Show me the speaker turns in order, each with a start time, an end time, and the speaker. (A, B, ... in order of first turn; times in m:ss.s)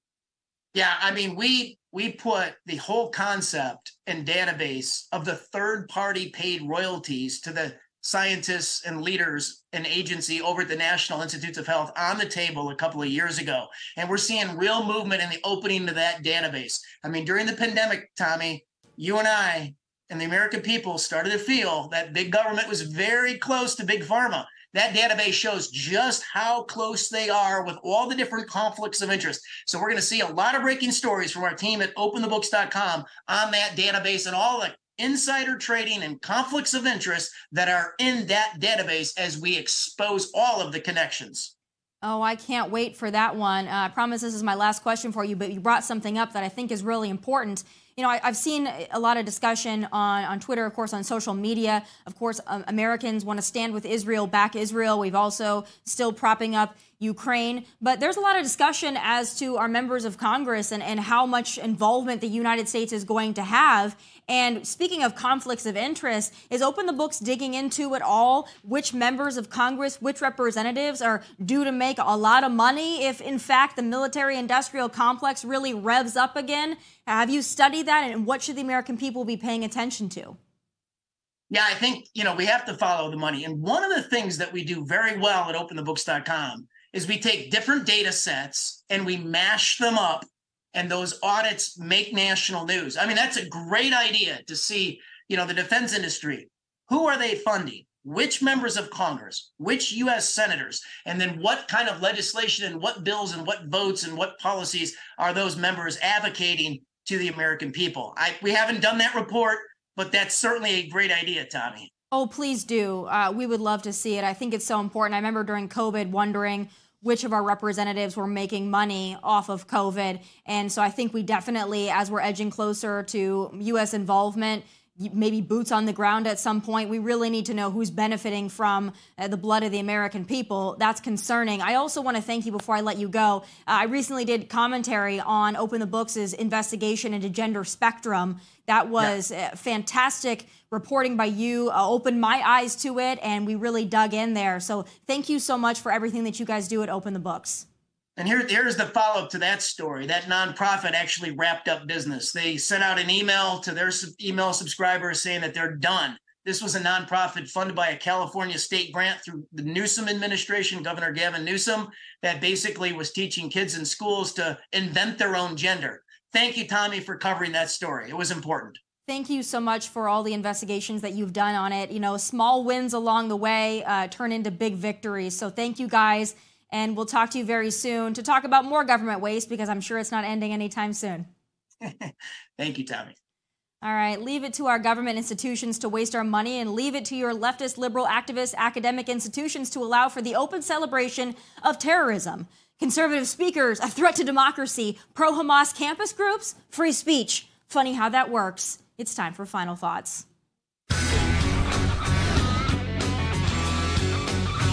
0:00.7-0:41.5 A
0:42.0-1:20.4 B
1:21.5-1:51.9 A
1:52.1-2:27.6 B
2:28.2-2:48.8 A
2:49.1-3:01.3 B
3:01.8-3:03.1 A
3:03.8-3:20.2 B